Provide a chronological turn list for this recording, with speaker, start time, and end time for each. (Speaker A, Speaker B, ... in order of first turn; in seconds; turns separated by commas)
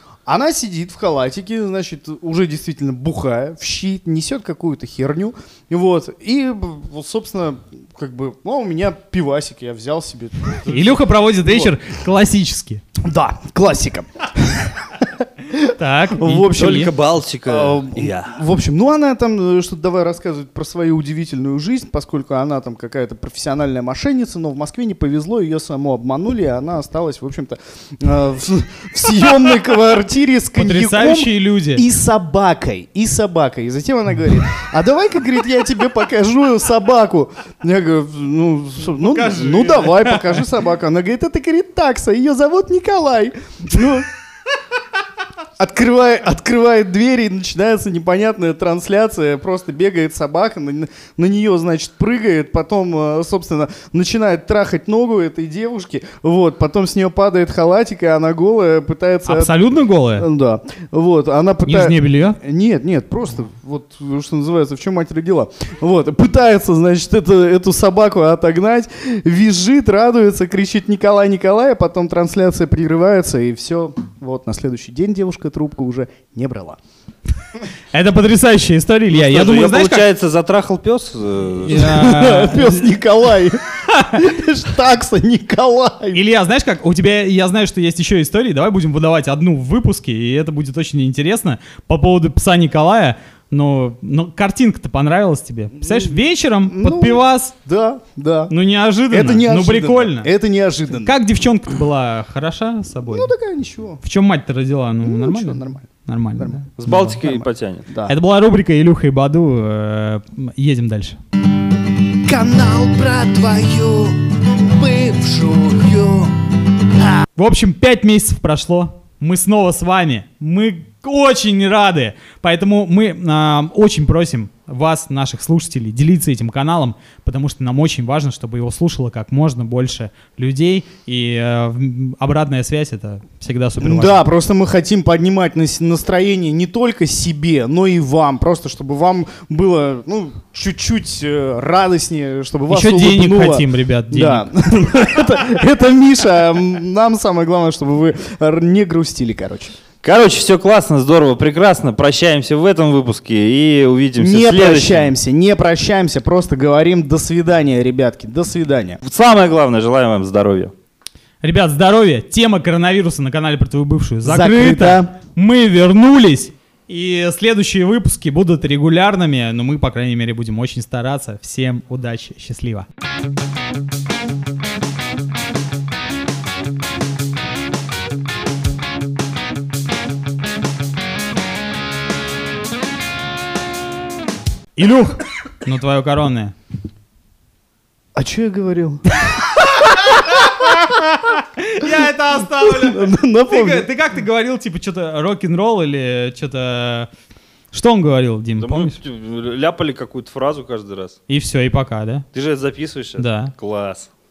Speaker A: 0.2-11.7, Speaker B: 10.6-12.8, Speaker A: 13.0-16.9, Speaker B: 15.7-16.9, Speaker C: 16.5-18.4, Speaker A: 17.4-44.1, Speaker B: 30.5-31.8, Speaker B: 39.0-40.4, Speaker A: 45.6-59.5, Speaker B: 59.2-60.3, Speaker A: 60.1-76.8, Speaker B: 61.6-62.4, Speaker B: 77.9-80.0, Speaker C: 79.1-82.0, Speaker B: 81.7-82.9, Speaker A: 81.7-86.2, Speaker B: 83.9-84.2, Speaker B: 86.1-97.5, Speaker A: 95.8-98.5, Speaker B: 98.5-100.3, Speaker A: 99.1-101.2, Speaker B: 100.9-103.3, Speaker A: 103.0-104.0, Speaker B: 104.0-107.2, Speaker A: 105.0-106.7, Speaker C: 106.8-107.8, Speaker A: 107.2-108.1, Speaker B: 108.0-111.2, Speaker A: 112.2-116.4, Speaker B: 117.4-134.3, Speaker A: 133.8-149.7, Speaker B: 142.7-144.5, Speaker C: 150.0-155.1, Speaker A: 154.2-159.0, Speaker C: 159.0-160.7, Speaker B: 161.4-172.8, Speaker A: 164.2-165.1, Speaker B: 184.8-186.5, Speaker A: 188.2-190.5, Speaker B: 189.6-197.1, Speaker A: 192.5-193.9, Speaker B: 197.7-198.9, Speaker C: 198.6-201.2, Speaker B: 201.3-202.2, Speaker C: 202.3-204.1, Speaker B: 203.2-203.5